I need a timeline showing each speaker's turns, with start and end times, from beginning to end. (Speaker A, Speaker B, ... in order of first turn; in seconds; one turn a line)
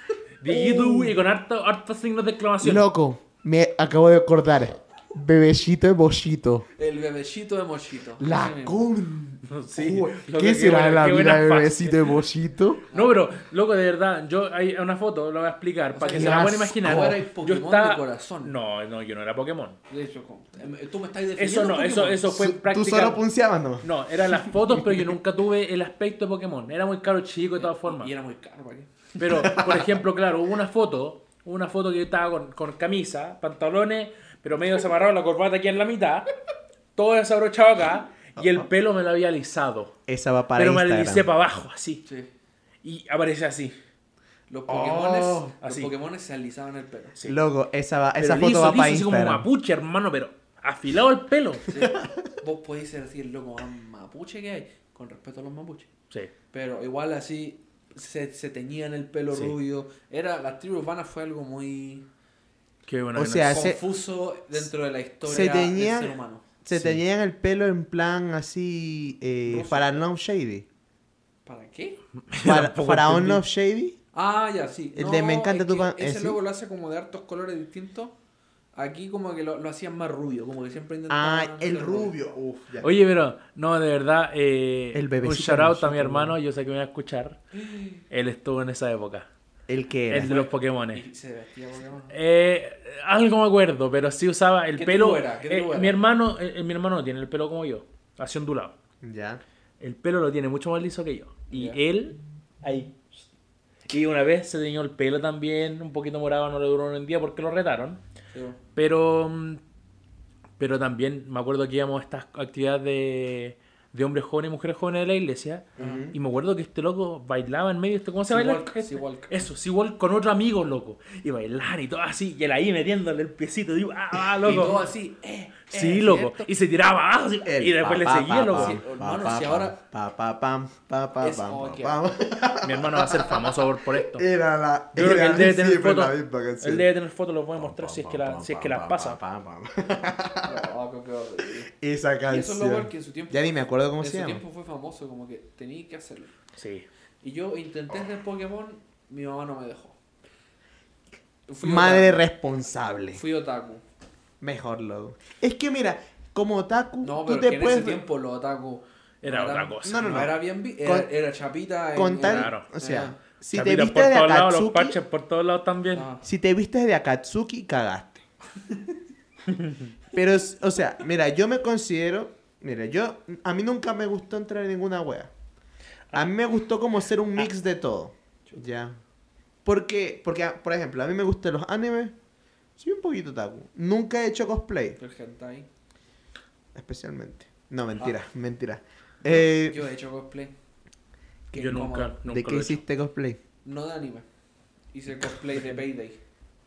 Speaker A: 0.4-2.9
Speaker B: 0.5-1.2
Speaker B: 2.6-6.7
Speaker C: 6.8-8.9
Speaker B: 8.2-12.9
Speaker A: 9.5-12.2
Speaker C: 12.9-13.2
Speaker A: 12.9-19.8
Speaker C: 15.9-18.5
Speaker B: 16.1-17.2
Speaker C: 19.9-22.2
Speaker A: 21.4-23.2
Speaker B: 22.3-25.1
Speaker A: 23.8-28.1
Speaker C: 27.6-29.8
Speaker A: 29.2-36.3
Speaker A: 37.0-40.0
Speaker B: 38.4-38.7
Speaker B: 40.1-41.3
Speaker A: 40.5-42.0
Speaker A: 42.8-43.8
Speaker C: 44.5-47.2
Speaker B: 44.7-45.5
Speaker A: 45.6-45.9
Speaker B: 47.2-49.5
Speaker A: 48.2-51.7
Speaker C: 51.7-55.9
Speaker B: 51.8-52.1
Speaker C: 56.5-62.1
Speaker A: 62.9-63.6
Speaker B: 63.1-63.8
Speaker C: 63.5-66.4
Speaker B: 65.2-70.7
Speaker A: 66.7-67.0
Speaker C: 69.5-70.0
Speaker C: 71.5-72.0
Speaker A: 72.3-73.4
Speaker B: 72.4-74.0
Speaker C: 74.1-78.2
Speaker B: 74.9-76.4
Speaker C: 78.8-82.1
Speaker B: 81.1-82.9
Speaker A: 82.8-87.4
Speaker B: 84.9-86.4
Speaker C: 87.5-88.0
Speaker A: 88.1-89.3
Speaker B: 89.7-90.3
Speaker A: 90.1-91.0
Speaker C: 90.2-92.2
Speaker A: 92.1-98.8
Speaker C: 94.8-96.0
Speaker B: 99.0-99.4
Speaker A: 99.8-103.1
Speaker C: 101.5-101.8
Speaker A: 103.9-108.0
Speaker C: 108.3-108.6
Speaker A: 108.8-109.6
Speaker A: 110.6-124.9
Speaker C: 115.8-116.1
Speaker B: 115.8-116.2
Speaker C: 118.3-119.4
Speaker C: 124.4-126.5
Speaker A: 125.7-128.8
Speaker B: 127.5-136.9
Speaker C: 128.5-129.8
Speaker C: 131.2-132.0
Speaker A: 132.6-134.2
Speaker A: 134.9-139.2
Speaker B: 137.6-140.7
Speaker C: 140.4-141.7
Speaker B: 141.7-144.4
Speaker C: 142.3-146.3
Speaker A: 146.6-146.9
Speaker C: 147.2-150.0
Speaker C: 151.5-152.2
Speaker B: 151.6-153.2
Speaker C: 153.1-153.8
Speaker B: 154.4-158.0
Speaker C: 157.0-163.2
Speaker A: 159.2-160.3
Speaker B: 159.8-161.1
Speaker B: 161.9-165.0
Speaker A: 162.2-162.7
Speaker A: 163.5-166.1
Speaker C: 165.9-166.2
Speaker B: 166.2-168.2
Speaker C: 168.6-169.0
Speaker A: 169.5-169.9
Speaker B: 170.1-175.3
Speaker B: 176.1-179.0
Speaker B: 179.7-182.2
Speaker B: 182.8-185.0
Speaker C: 185.0-185.7
Speaker B: 186.7-189.9
Speaker C: 189.3-190.5
Speaker C: 191.5-192.2
Speaker A: 191.5-192.8
Speaker B: 191.6-193.4
Speaker C: 193.7-194.3
Speaker C: 194.9-196.2